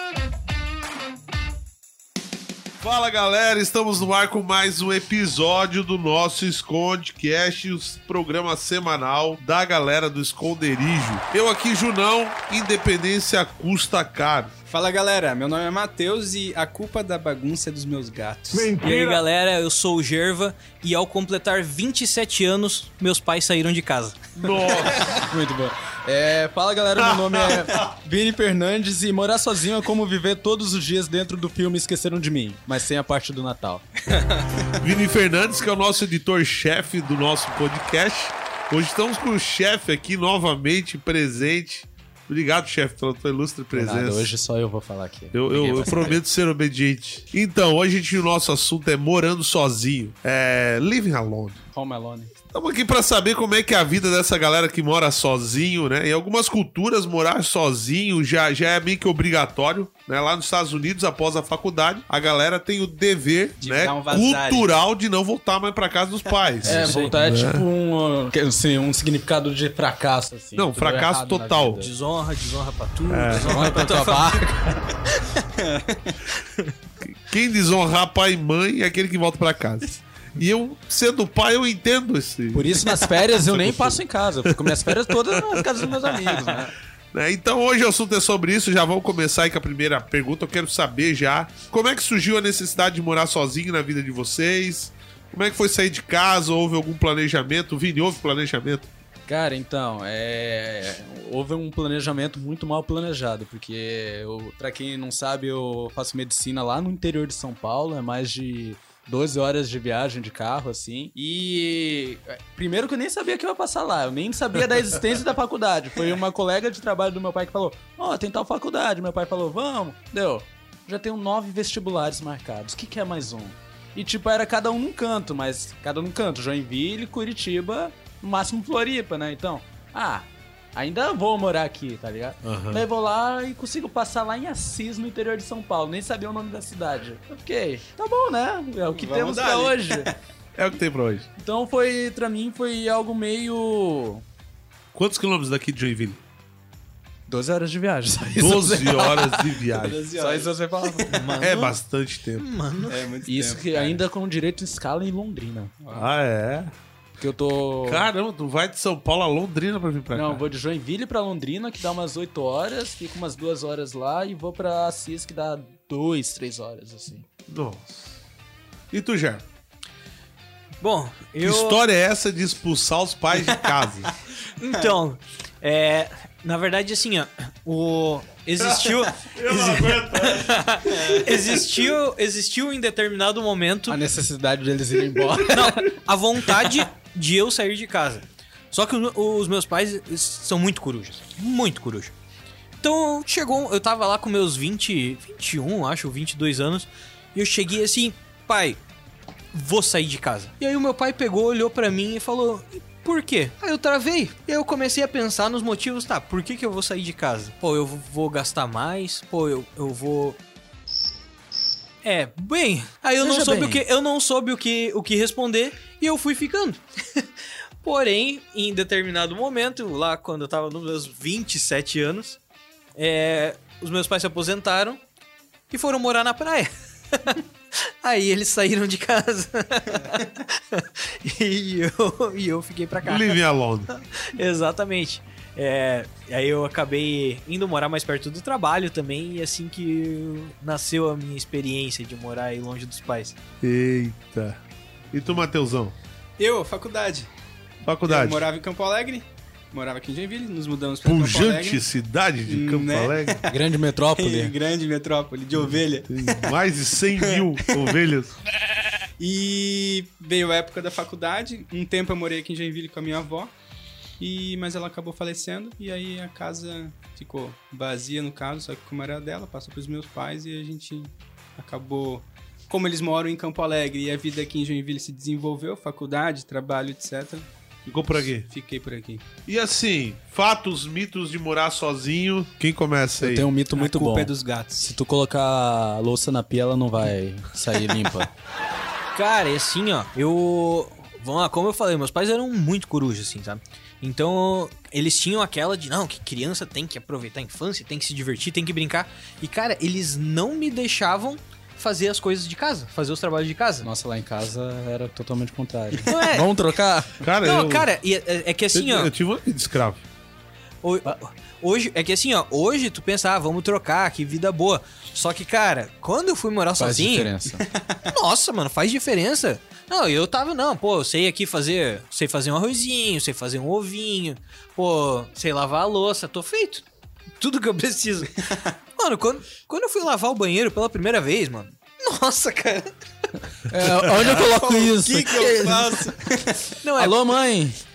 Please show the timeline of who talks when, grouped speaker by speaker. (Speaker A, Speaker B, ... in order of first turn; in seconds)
Speaker A: 2.8-14.5, 18.5-19.2, 24.4-25.2, 27.0-27.8, 34.8-44.3, 45.3-51.6, 52.5-67.7, 70.5-71.8, 73.1-73.7, 77.0-85.9, 87.1-98.9, 132.4-132.8, 140.6-141.3, 144.9-146.2, 148.4-150.0, 151.4-152.4, 155.9-156.7, 157.9-160.4, 167.5-168.1, 168.9-169.4, 171.4-174.1, 178.6-180.7, 233.0-233.9, 243.6-244.6, 245.1-245.9, 247.8-248.4, 251.0-253.4, 255.7-258.4, 277.9-278.5, 279.5-283.5, 307.2-307.9, 308.7-310.0
Speaker B: 14.7-18.7, 63.6-64.7, 75.6-76.3, 138.9-140.2, 149.7-151.2, 152.9-154.0, 155.8-156.1, 180.9-181.7, 246.4-247.3, 248.1-251.8, 252.5-253.5, 254.2-256.5, 257.2-258.0, 259.2-263.5, 264.2-277.5, 278.4-279.2, 283.7-284.9, 317.6-318.0, 334.1-336.7
Speaker C: 18.8-24.2, 66.7-67.1, 71.8-74.8, 151.1-151.8, 152.4-153.0, 170.8-171.8, 174.6-184.0, 185.5-192.1, 192.8-198.8, 199.5-210.4, 212.0-217.3, 217.8-222.4, 223.0-225.0, 225.7-243.4, 289.1-303.9, 306.1-306.5, 307.4-309.1, 310.8-317.3, 318.1-326.8, 327.4-332.9, 336.8-337.3
Speaker D: 25.0-33.9, 43.7-46.2, 51.7-52.3, 66.6-71.9, 73.3-74.8, 82.5-86.7, 99.3-140.1, 141.4-144.2, 147.3-149.6, 150.2-151.1, 153.3-155.7, 157.2-158.1, 160.1-167.2, 183.9-186.0, 213.2-213.8, 253.5-254.6, 283.2-288.3, 303.8-307.2, 316.8-317.6, 333.7-336.1, 337.0-337.8